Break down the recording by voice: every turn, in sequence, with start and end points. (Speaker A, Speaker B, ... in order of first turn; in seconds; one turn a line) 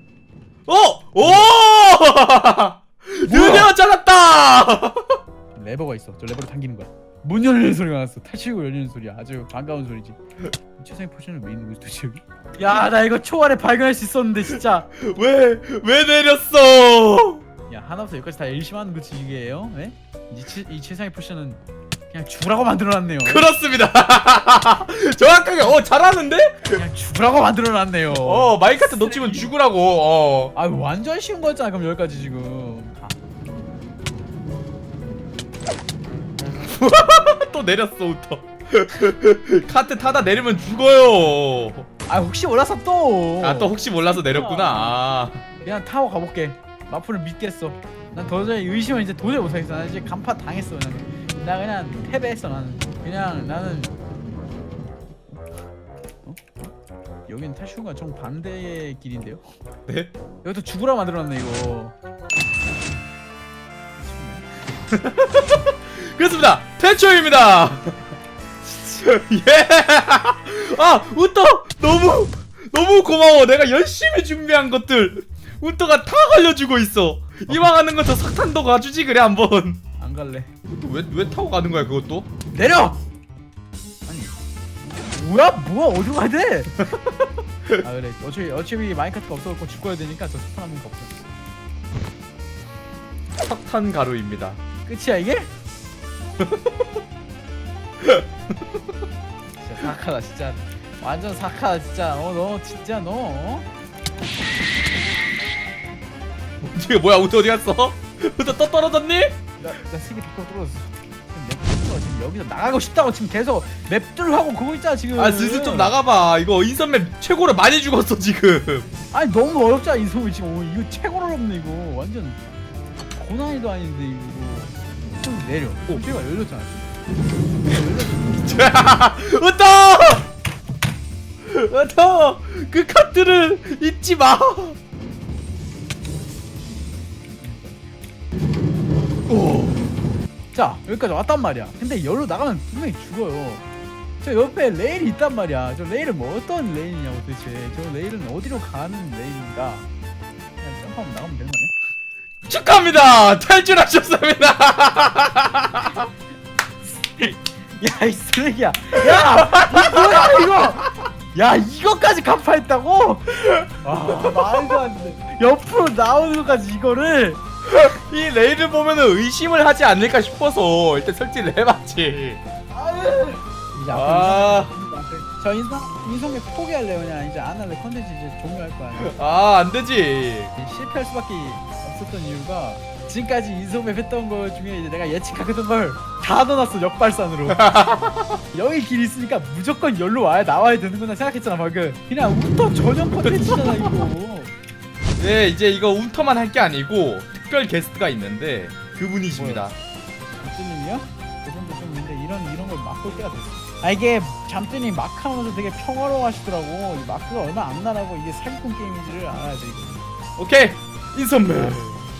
Speaker A: 0.7-5.2
Speaker B: 1.2-1.5
Speaker B: 3.3-3.7
Speaker B: 5.5-10.2
Speaker B: 10.8-14.9
Speaker A: 14.9-17.4
Speaker B: 17.7-21.6
Speaker B: 22.1-23.5
Speaker A: 23.2-26.8
Speaker B: 26.7-29.5
Speaker A: 28.1-30.5
Speaker B: 30.5-33.2
Speaker A: 36.5-41.9
Speaker B: 42.1-45.0
Speaker A: 43.4-45.4
Speaker B: 45.6-54.0
Speaker B: 56.2-56.7
Speaker B: 57.3-59.4
Speaker A: 59.9-60.1
Speaker B: 60.4-61.9
Speaker B: 64.0-64.5
Speaker A: 64.9-68.1
Speaker B: 68.6-69.1
Speaker A: 69.0-79.8
Speaker B: 80.0-80.5
Speaker A: 80.7-82.3
Speaker B: 82.5-83.0
Speaker B: 84.1-86.9
Speaker B: 87.8-91.3
Speaker A: 93.3-94.6
Speaker B: 94.8-95.5
Speaker A: 96.4-96.9
Speaker B: 99.6-103.7
Speaker A: 106.6-109.4
Speaker B: 109.6-115.9
Speaker A: 115.2-118.9
Speaker B: 119.1-122.6
Speaker B: 123.1-126.9
Speaker B: 127.6-128.6
Speaker A: 128.4-130.2
Speaker A: 131.4-134.8
Speaker B: 137.3-137.8
Speaker A: 139.3-139.8
Speaker B: 140.5-143.6
Speaker B: 144.2-149.9
Speaker B: 150.6-151.7
Speaker A: 152.4-156.1
Speaker B: 156.9-167.4
Speaker A: 159.2-160.7
Speaker A: 163.4-164.8
Speaker A: 167.6-172.4
Speaker B: 172.7-179.1
Speaker A: 173.9-174.7
Speaker A: 178.9-180.5
Speaker B: 180.6-187.7
Speaker A: 187.5-188.4
Speaker B: 188.5-194.5
Speaker A: 193.2-194.0
Speaker A: 195.2-199.8
Speaker B: 199.3-199.7
Speaker B: 200.4-210.0
Speaker A: 210.4-212.0